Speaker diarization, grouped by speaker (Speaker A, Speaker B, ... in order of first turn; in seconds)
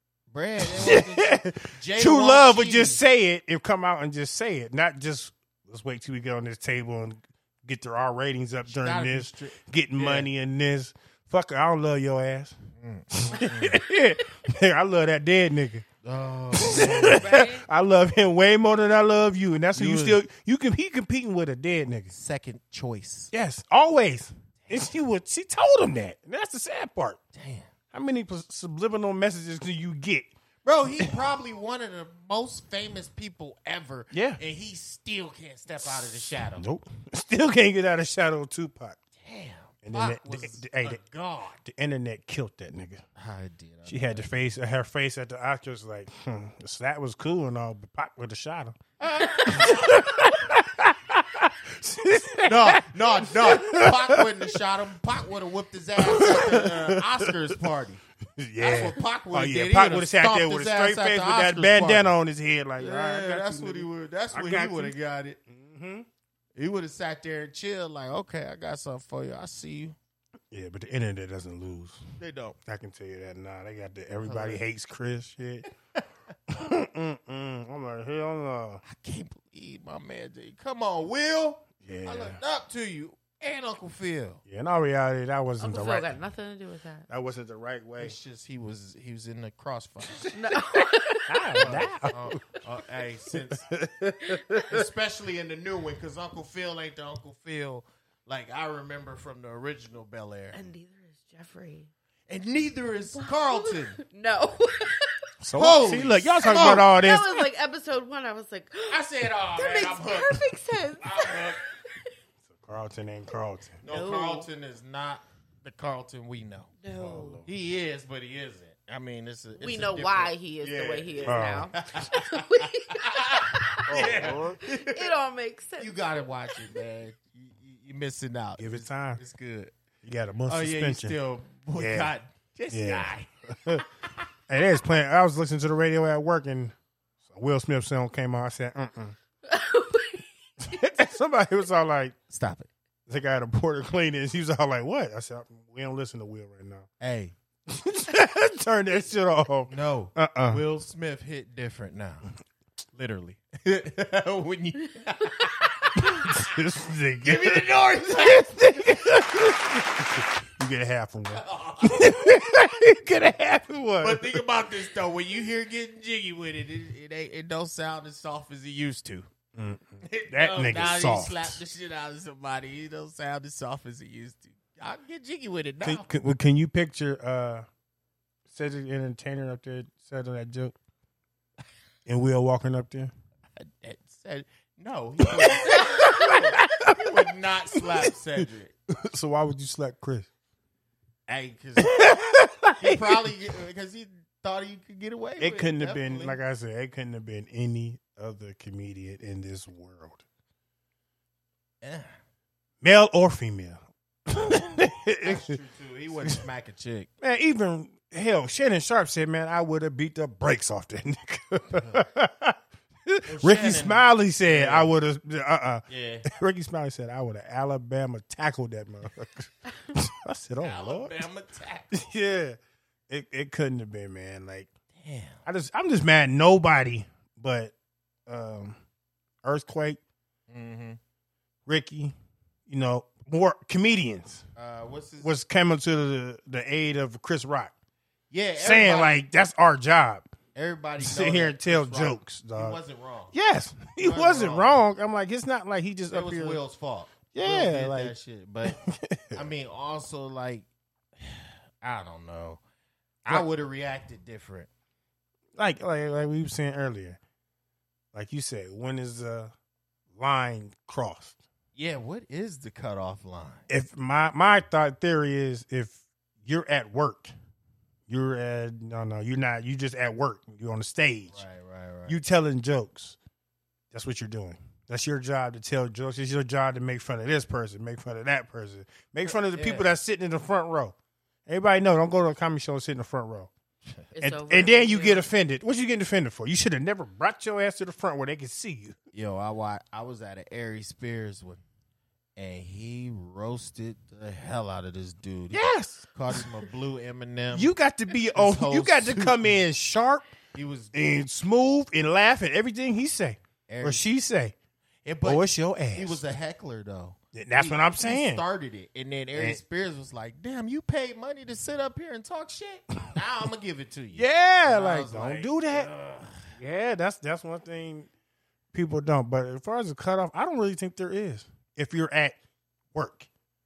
Speaker A: 0.3-3.0, 8.7-10.3, 12.8-13.8, 16.0-17.4, 19.7-20.2, 22.1-23.3, 24.6-24.9, 27.3-27.7, 30.6-36.7, 39.2-41.6, 43.2-44.3, 49.0-49.9, 52.5-58.0, 58.6-62.1, 62.8-65.4, 66.5-70.0, 72.2-72.6, 74.2-74.6, 78.8-84.4, 88.0-90.3, 91.6-93.7, 94.7-100.6, 102.3-104.0, 105.6-106.9, 108.9-110.4, 111.0-111.6, 113.8-116.7, 117.5-125.2, 125.8-129.7, 130.5-133.3, 142.3-142.7, 147.0-147.3, 149.7-152.3, 152.9-156.4, 157.2-159.2, 161.3-162.3, 164.0-169.3, 170.0-176.1, 183.6-188.8, 191.3-192.2, 192.8-196.4, 201.8-202.2, 205.2-207.1, 213.3-214.9, 215.9-216.3, 220.6-221.9, 225.0-225.4, 230.5-231.0, 234.6-235.4, 238.3-239.2, 240.5-243.3, 244.0-244.8, 246.1-248.8, 249.3-250.7, 251.2-252.6, 253.2-254.7, 261.8-263.7, 271.3-272.2, 279.3-279.9, 289.1-291.6, 292.4-297.7, 298.3-299.6, 300.5-300.9, 303.7-304.1, 305.1-316.5
Speaker B: 0.6-12.6, 13.2-15.8, 16.5-22.1, 23.3-27.2, 27.9-30.3, 34.1-34.4, 36.6-39.0, 39.8-41.0, 41.6-43.0, 43.9-48.8, 49.3-54.5, 56.0-57.6, 58.4-65.0, 65.5-66.1, 70.5-72.0, 72.6-75.7, 76.5-78.8, 81.8-82.4, 84.5-86.1, 87.1-88.2, 91.3-92.6, 93.3-94.8, 105.4-107.5, 112.5-113.8, 116.9-117.5, 121.2-121.7, 123.9-124.6, 128.6-129.2, 130.0-131.2, 131.8-132.1, 132.7-133.8, 134.5-136.7, 137.2-139.2, 140.6-142.2, 143.1-146.9, 147.7-150.6, 156.0-164.4, 169.6-171.6, 175.8-177.7, 178.5-180.8, 182.1-183.1, 185.2-187.2, 188.0-190.3, 191.8-193.1, 195.4-200.2, 202.8-205.6, 207.2-221.2, 221.9-222.6, 223.1-224.7, 225.5-227.7, 228.3-228.8, 229.4-230.0, 231.7-232.2, 232.7-234.4, 235.2-237.7, 238.6-240.3, 241.0-242.8, 243.3-246.6, 247.3-249.4, 255.6-257.2, 258.1-259.5, 260.1-261.4, 263.7-267.3, 268.1-271.4, 272.1-273.2, 273.9-280.9, 281.5-283.5, 284.2-289.0, 295.5-296.4, 297.5-300.2, 300.9-304.6, 305.2-306.2, 307.3-308.4, 314.1-315.9, 316.6-318.1, 318.7-322.4, 322.9-323.3
Speaker C: 17.0-17.6, 85.6-87.1, 90.3-91.6, 100.5-101.9, 103.2-105.3, 106.4-111.8, 113.9-114.5, 116.8-117.4, 119.6-126.5, 139.4-140.8, 284.1-285.3